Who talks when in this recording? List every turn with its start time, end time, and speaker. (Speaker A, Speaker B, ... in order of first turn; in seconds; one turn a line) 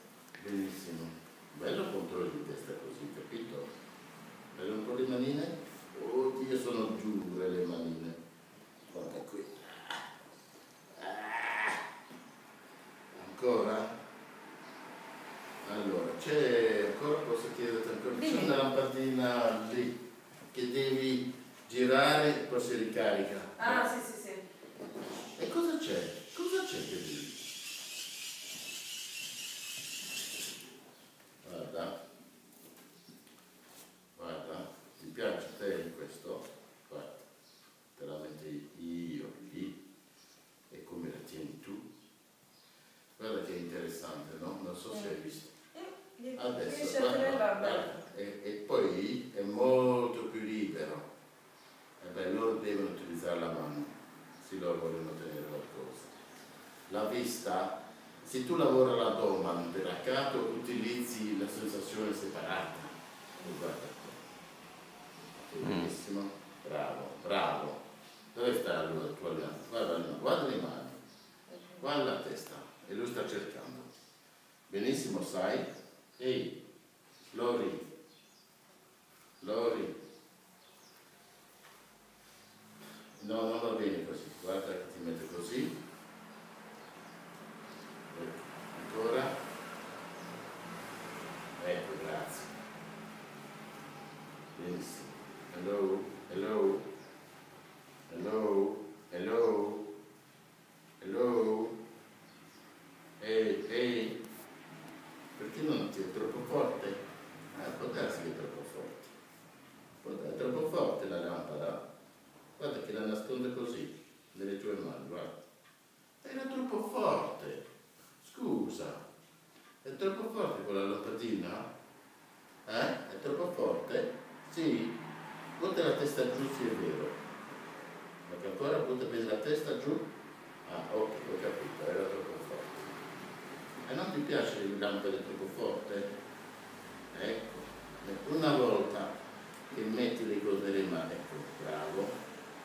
Speaker A: 0.3-3.7
Speaker A: 4.5-8.2
Speaker A: 8.9-10.0
Speaker A: 10.9-11.8
Speaker A: 13.1-13.9
Speaker A: 15.6-19.9
Speaker B: 18.2-18.5
Speaker A: 20.5-23.9
Speaker B: 23.6-24.4
Speaker A: 25.4-27.4
Speaker A: 31.4-31.9
Speaker A: 34.1-37.2
Speaker A: 37.9-39.8
Speaker A: 40.7-41.8
Speaker A: 43.2-45.5
Speaker B: 45.8-47.9
Speaker A: 46.4-51.0
Speaker A: 52.0-56.1
Speaker A: 56.9-64.2
Speaker A: 65.4-67.8
Speaker A: 68.3-71.0
Speaker A: 71.8-73.9
Speaker A: 74.7-76.6
Speaker A: 77.3-77.8
Speaker A: 79.4-80.0
Speaker A: 83.2-85.7
Speaker A: 88.1-89.3
Speaker A: 91.6-92.5
Speaker A: 94.5-96.8
Speaker A: 98.1-99.9
Speaker A: 101.0-101.8
Speaker A: 103.2-104.2
Speaker A: 105.3-107.0
Speaker A: 107.5-109.1
Speaker A: 110.0-111.8
Speaker A: 112.6-115.4
Speaker A: 116.2-117.6
Speaker A: 118.2-119.0
Speaker A: 119.8-121.7
Speaker A: 122.6-125.0
Speaker A: 125.6-127.1
Speaker A: 128.2-130.1
Speaker A: 130.6-133.0
Speaker A: 133.8-136.1
Speaker A: 137.1-139.1
Speaker A: 139.7-142.1